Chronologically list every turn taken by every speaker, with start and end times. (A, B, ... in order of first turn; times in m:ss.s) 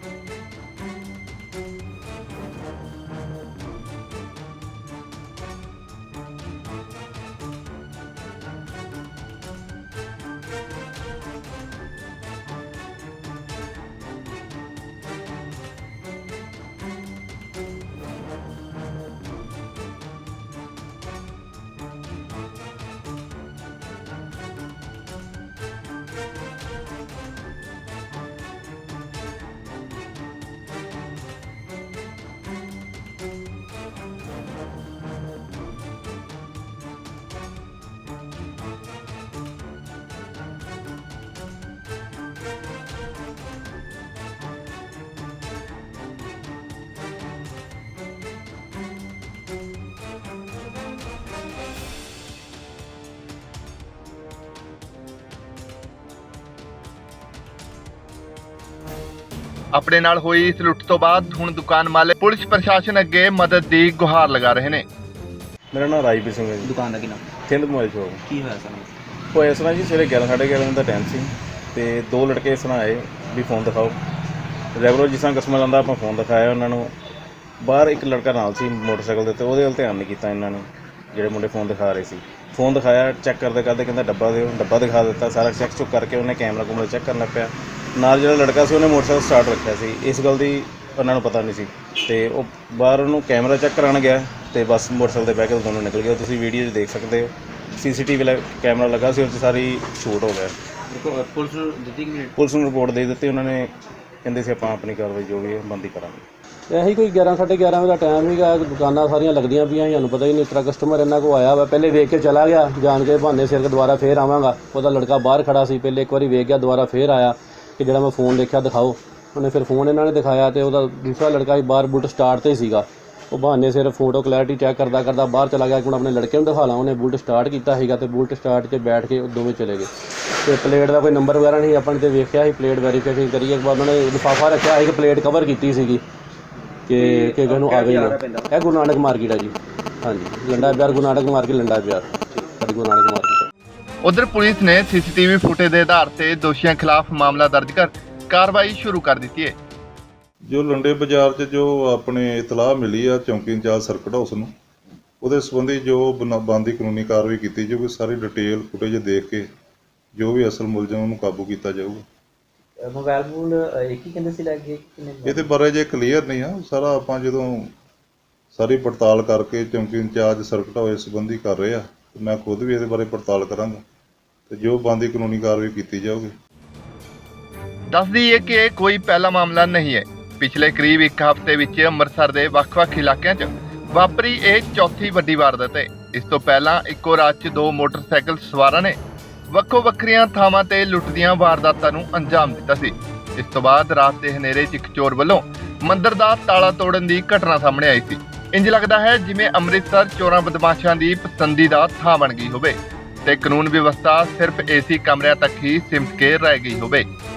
0:59.7-1:04.8 A
1:05.7-1:06.7 B
1:06.6-1:07.2 C
1:07.5-1:08.2 B
1:08.3-1:08.9 C
1:09.3-1:14.0 B
1:14.7-1:16.9 B
1:17.6-1:40.5 B
1:40.9-1:42.3 C
1:42.3-1:43.7 B
1:44.2-1:46.2 B
1:46.7-2:09.9 D
2:10.4-2:16.0 D
2:16.9-2:23.5 D
2:16.9-2:18.5 C
2:24.0-2:29.5 A
2:30.4-2:34.5 E
2:35.2-2:39.5 E
2:40.2-2:42.0 E
2:42.8-2:45.5 C
2:45.2-2:47.7 E
2:48.5-2:53.8 E
2:54.5-2:56.3 E
2:57.9-3:09.0 A
3:09.5-3:27.0 A